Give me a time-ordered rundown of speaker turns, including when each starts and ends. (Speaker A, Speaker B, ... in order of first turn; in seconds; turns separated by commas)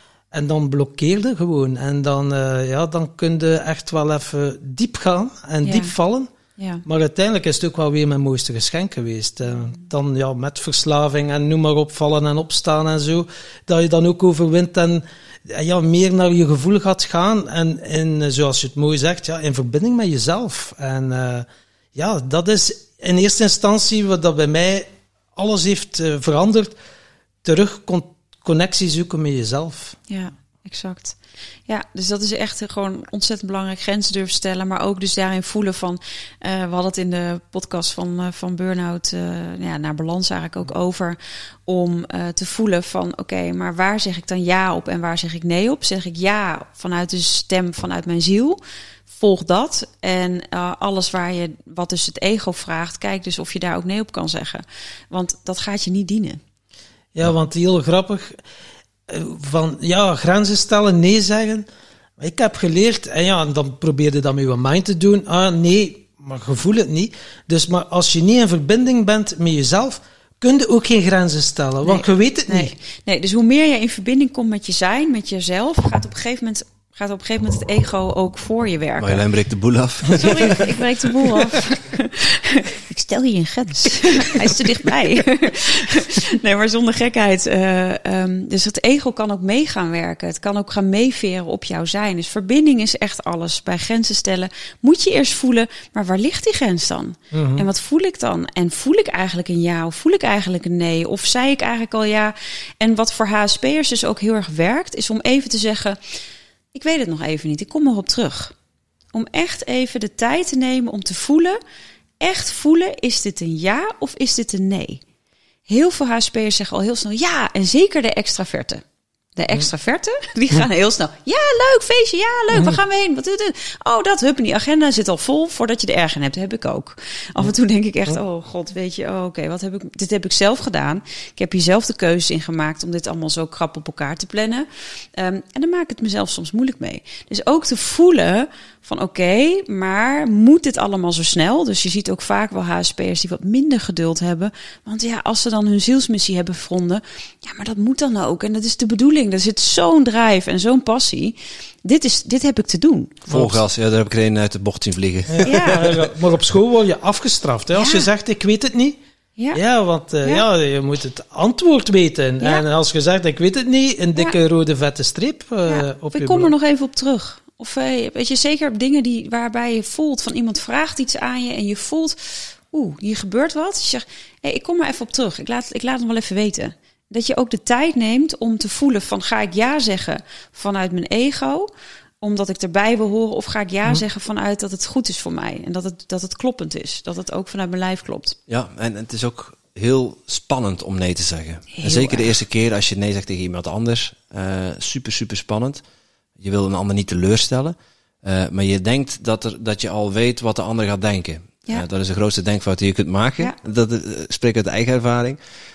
Speaker A: 0.3-6.3, Speaker B: 5.6-5.9, Speaker B: 6.6-6.8, Speaker A: 6.8-26.8, Speaker A: 27.4-30.0, Speaker B: 30.1-56.4, Speaker A: 57.1-58.4, Speaker A: 59.1-61.7, Speaker A: 62.2-72.8, Speaker B: 71.8-79.3, Speaker C: 79.0-80.8, Speaker B: 80.1-106.0, Speaker A: 97.3-97.7, Speaker B: 106.7-108.5, Speaker B: 109.1-111.6, Speaker B: 112.2-115.0, Speaker B: 115.7-118.8, Speaker B: 119.4-153.2, Speaker A: 122.5-122.8, Speaker C: 153.3-155.8, Speaker A: 153.3-153.6, Speaker A: 155.3-159.0, Speaker B: 155.4-155.9, Speaker B: 157.7-158.1, Speaker A: 159.5-166.5, Speaker B: 165.7-181.7, Speaker B: 182.2-188.4, Speaker C: 188.5-195.8, Speaker B: 191.7-192.4, Speaker C: 196.4-205.4